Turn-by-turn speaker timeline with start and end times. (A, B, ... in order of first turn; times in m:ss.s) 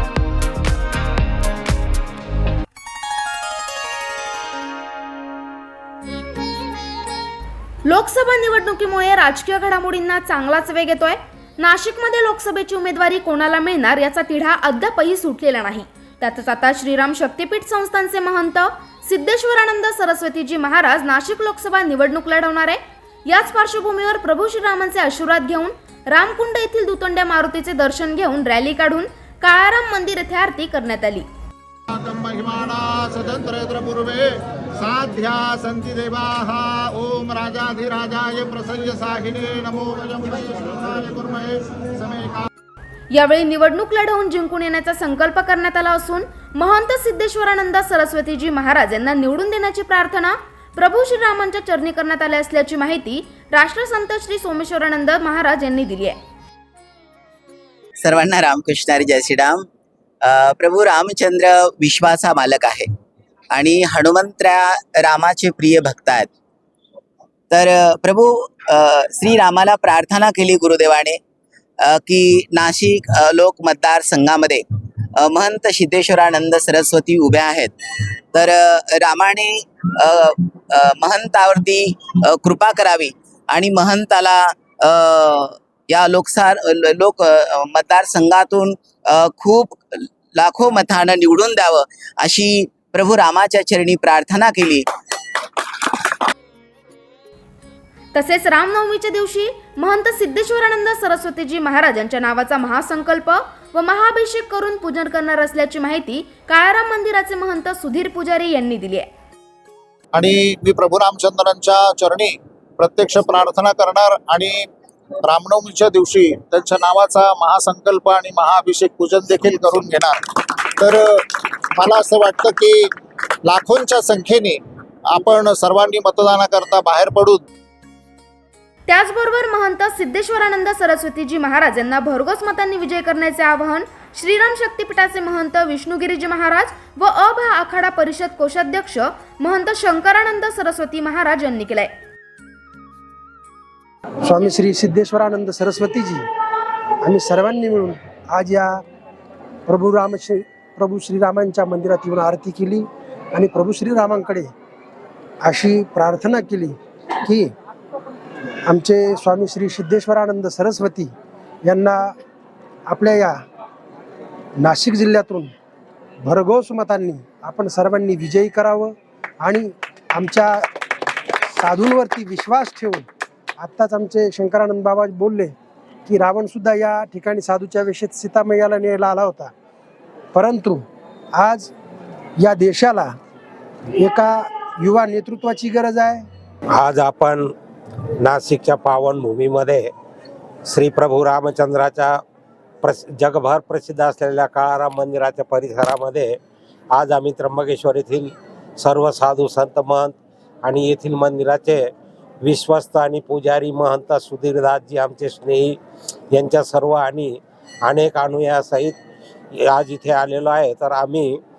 0:07.8-0:31.3 A
0:31.9-0:42.5 B
0:43.1-0:56.2 A
0:58.0-0:59.7 C
1:00.2-1:02.9 C
1:03.5-1:06.3 C
1:07.5-1:11.2 C
1:11.8-1:14.6 C
1:15.2-1:17.7 C
1:18.3-1:29.8 C
1:30.4-1:34.9 C
1:38.1-1:49.1 A
1:50.1-1:54.7 B
1:55.2-2:02.8 B
2:03.4-2:04.6 B
2:05.1-2:07.4 B
2:08.9-2:21.9 A
2:24.2-2:26.2 D
2:27.0-2:28.8 D
2:29.7-2:34.5 D
2:35.4-2:37.5 D
2:38.7-2:41.1 D
2:41.6-2:42.1 D
2:42.9-2:43.4 D
2:44.6-2:45.5 D
2:46.2-2:50.6 D
2:51.6-2:53.1 D
2:53.6-2:55.5 D
2:56.1-2:59.5 D
3:00.4-3:01.7 D
3:02.4-3:03.1 D
3:04.0-3:06.2 D
3:06.7-3:07.5 E
3:08.2-3:09.9 E
3:10.7-3:12.2 E
3:12.8-3:16.4 E
3:16.9-3:21.8 E
3:22.4-3:25.8 E
3:26.3-3:29.0 E
3:29.6-3:31.4 E